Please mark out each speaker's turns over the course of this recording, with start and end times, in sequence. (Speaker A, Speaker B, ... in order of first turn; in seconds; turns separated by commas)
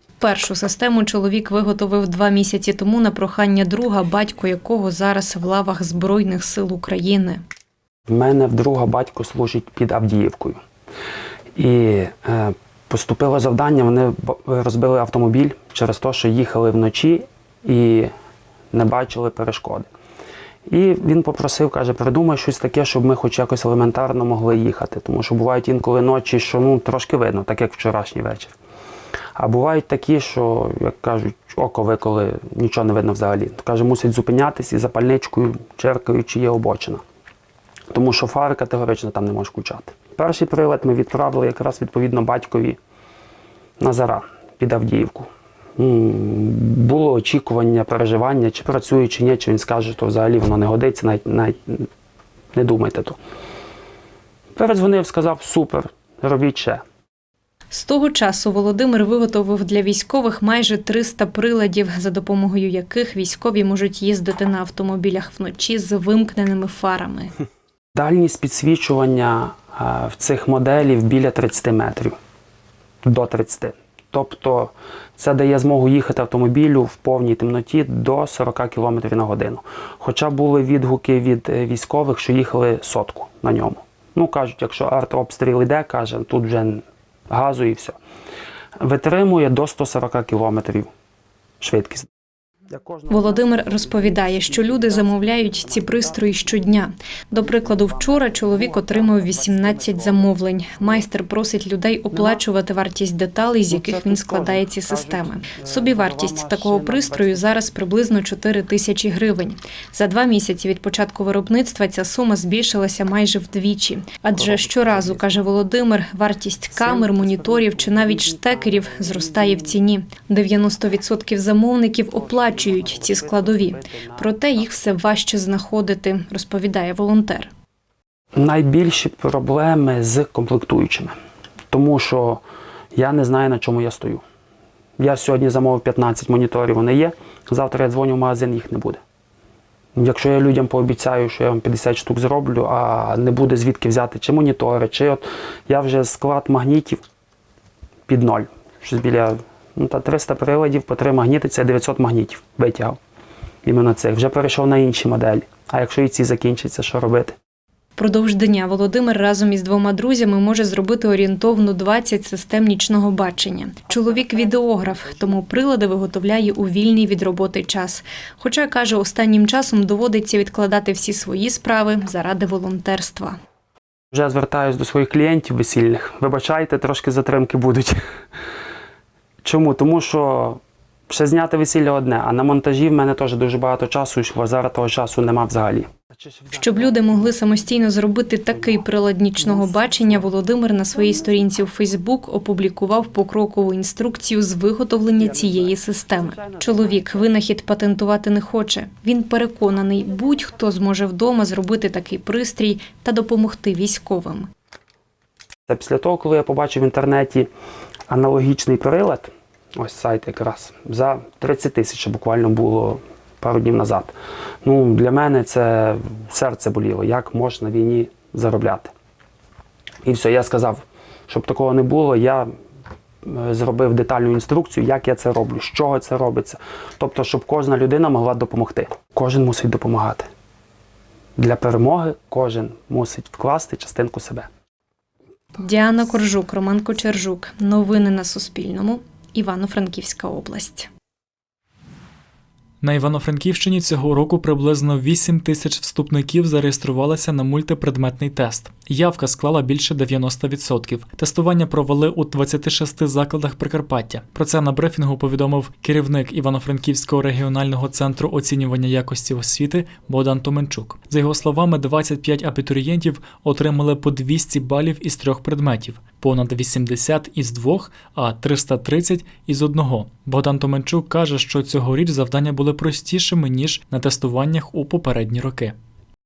Speaker A: 0.2-7.4, Speaker B: 8.1-10.6, Speaker B: 11.6-18.1, Speaker B: 18.7-19.9, Speaker B: 20.7-28.6, Speaker B: 29.4-37.0, Speaker B: 37.9-42.8, Speaker B: 43.8-51.9, Speaker B: 52.5-53.2, Speaker B: 54.5-56.8, Speaker A: 57.7-67.3, Speaker B: 68.0-72.2, Speaker B: 73.0-88.0, Speaker B: 88.8-90.9, Speaker B: 91.6-92.1, Speaker B: 92.7-96.5, Speaker A: 93.1-127.5, Speaker B: 97.3-100.3, Speaker B: 102.1-102.4, Speaker B: 103.7-107.5, Speaker B: 114.3-115.4, Speaker B: 116.7-119.7, Speaker B: 122.1-124.4, Speaker B: 128.3-131.1, Speaker B: 131.7-132.4, Speaker B: 132.9-134.2, Speaker B: 135.0-139.0, Speaker B: 140.0-147.0, Speaker B: 148.1-153.0, Speaker B: 153.7-157.3, Speaker A: 158.0-173.4, Speaker B: 174.1-178.0, Speaker B: 179.4-187.6, Speaker A: 186.5-204.5, Speaker B: 188.5-188.8, Speaker B: 189.4-190.3, Speaker B: 195.2-197.2, Speaker B: 205.7-207.5, Speaker B: 208.1-214.1, Speaker B: 214.6-218.9, Speaker B: 220.1-222.5, Speaker B: 223.2-230.3, Speaker B: 231.4-234.5, Speaker A: 235.6-240.9, Speaker C: 242.8-275.8